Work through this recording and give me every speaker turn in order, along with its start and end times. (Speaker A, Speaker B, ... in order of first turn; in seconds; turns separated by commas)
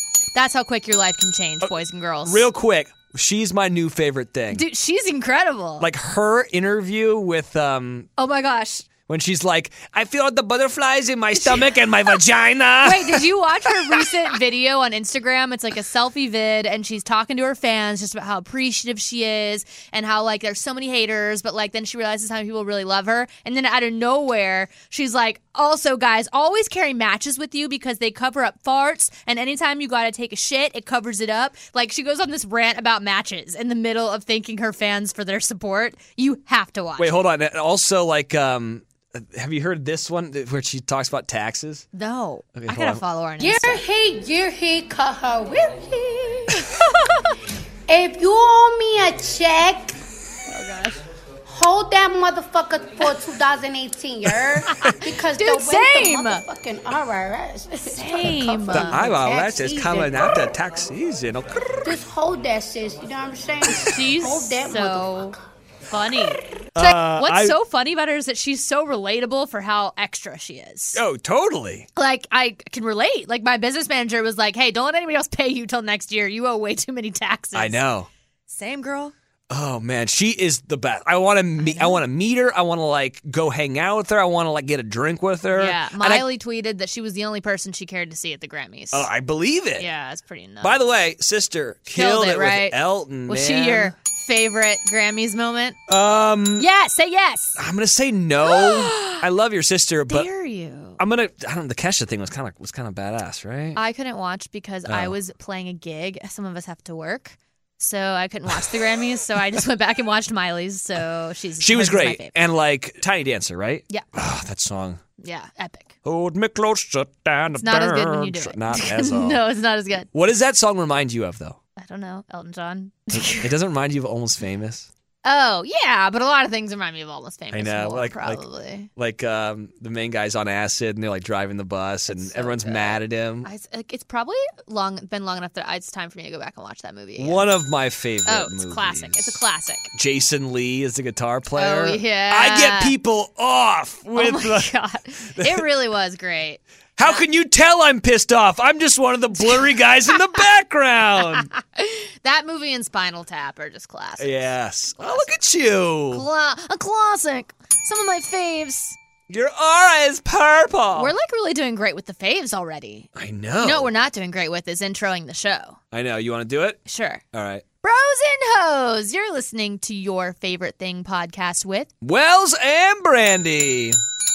Speaker A: 0.3-2.5, Speaker B: 2.2-4.6, Speaker A: 4.5-5.9, Speaker B: 5.8-8.1, Speaker A: 8.2-8.9, Speaker B: 9.1-13.3, Speaker A: 11.3-12.2, Speaker A: 12.8-37.2, Speaker B: 37.0-41.9, Speaker A: 41.9-43.8, Speaker B: 42.5-43.0, Speaker C: 43.4-46.8, Speaker A: 46.5-47.3, Speaker C: 47.9-50.0, Speaker A: 50.5-51.0, Speaker C: 51.5-60.3, Speaker A: 54.7-56.4, Speaker A: 57.9-59.0, Speaker B: 58.7-61.7, Speaker C: 61.8-65.3, Speaker A: 63.6-65.4, Speaker A: 65.9-71.0, Speaker B: 66.7-67.6, Speaker B: 70.9-71.9, Speaker A: 72.0-77.8, Speaker B: 77.5-78.1, Speaker A: 78.5-79.1, Speaker B: 79.5-86.2, Speaker A: 81.6-82.0, Speaker A: 85.5-89.1, Speaker B: 88.9-89.9, Speaker A: 89.8-90.8, Speaker B: 90.6-93.9, Speaker A: 91.9-95.8, Speaker B: 95.9-96.7, Speaker A: 96.6-97.6, Speaker B: 97.5-100.3, Speaker A: 98.4-99.2, Speaker A: 100.1-101.0, Speaker B: 101.0-103.8, Speaker A: 103.7-112.3, Speaker B: 104.9-105.1, Speaker B: 111.6-115.0, Speaker A: 115.2-115.9, Speaker B: 116.0-119.4, Speaker A: 117.6-120.1, Speaker B: 120.1-121.6, Speaker A: 121.8-123.5, Speaker B: 123.1-124.9, Speaker A: 125.2-128.9, Speaker B: 127.5-128.4, Speaker B: 128.9-133.5, Speaker A: 132.1-137.4, Speaker B: 137.2-139.4, Speaker A: 138.2-139.9, Speaker B: 139.9-144.7, Speaker A: 141.6-142.9, Speaker A: 144.1-147.2, Speaker B: 145.3-145.7, Speaker B: 147.0-151.5, Speaker A: 149.4-150.1, Speaker A: 151.4-154.3, Speaker B: 154.2-156.2, Speaker A: 155.0-155.3, Speaker A: 156.1-159.0, Speaker B: 159.3-161.1, Speaker A: 160.9-163.1, Speaker B: 163.2-163.9, Speaker A: 163.6-165.8, Speaker B: 165.9-166.8, Speaker A: 166.9-167.2, Speaker B: 167.3-167.6, Speaker A: 167.8-171.9, Speaker B: 172.0-174.0